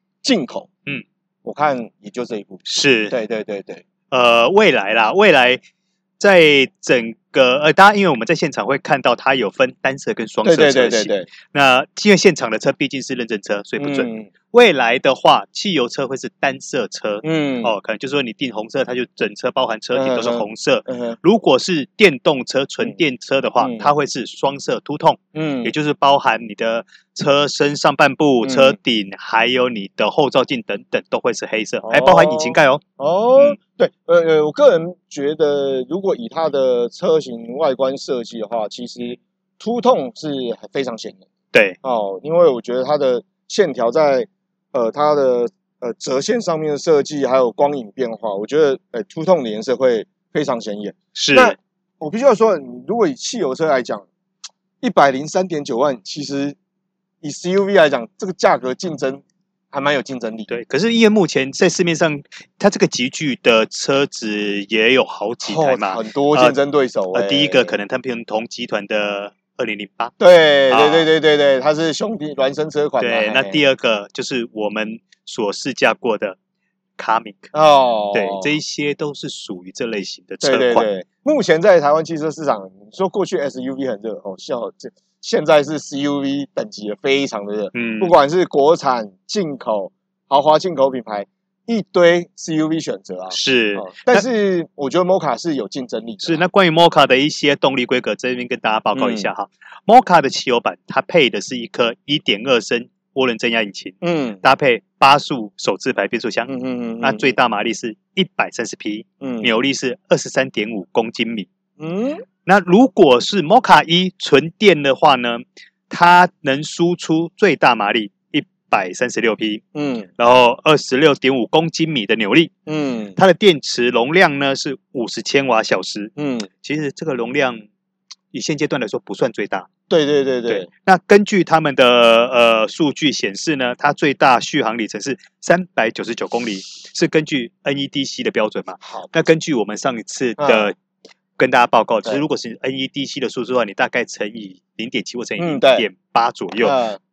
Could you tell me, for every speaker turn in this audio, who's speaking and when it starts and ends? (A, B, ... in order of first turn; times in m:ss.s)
0:00.2-0:00.7 A
0:01.4-0:03.8 A
0:02.7-0:03.1 B
0:04.1-0:05.6 B
0:06.2-0:32.8 B
0:10.4-0:11.3 A
0:13.8-0:14.3 A
0:17.2-0:17.7 A
0:19.9-0:21.2 A
0:23.6-0:23.9 A
0:25.3-0:25.7 A
0:28.4-0:28.8 A
0:31.8-0:41.2 A
0:41.8-0:54.1 A
0:51.1-0:51.6 B
0:54.8-0:56.6 A
0:57.2-1:00.5 A
1:00.5-1:06.6 B
1:05.4-1:07.7 A
1:07.1-1:10.2 B
1:10.2-1:13.6 A
1:10.7-1:11.1 B
1:13.0-1:16.4 B
1:17.0-1:17.5 B
1:17.5-1:18.5 A
1:18.1-1:20.9 B
1:20.4-1:36.4 A
1:27.7-1:28.1 B
1:33.3-1:34.2 B
1:36.2-1:51.5 B
1:38.9-1:39.3 A
1:44.0-1:44.4 A
1:46.5-1:47.3 A
1:49.2-1:49.5 A
1:51.8-1:52.2 A
1:52.4-1:59.6 B
1:59.7-2:00.1 A
2:00.2-2:02.5 B
2:02.6-2:03.2 A
2:03.2-2:07.6 B
2:06.2-2:06.5 A
2:08.3-2:09.7 B
2:09.9-2:10.7 A
2:10.5-2:20.8 B
2:18.8-2:19.1 A
2:20.4-2:20.7 A
2:21.4-2:26.8 B
2:25.4-2:25.9 A
2:26.6-2:27.0 A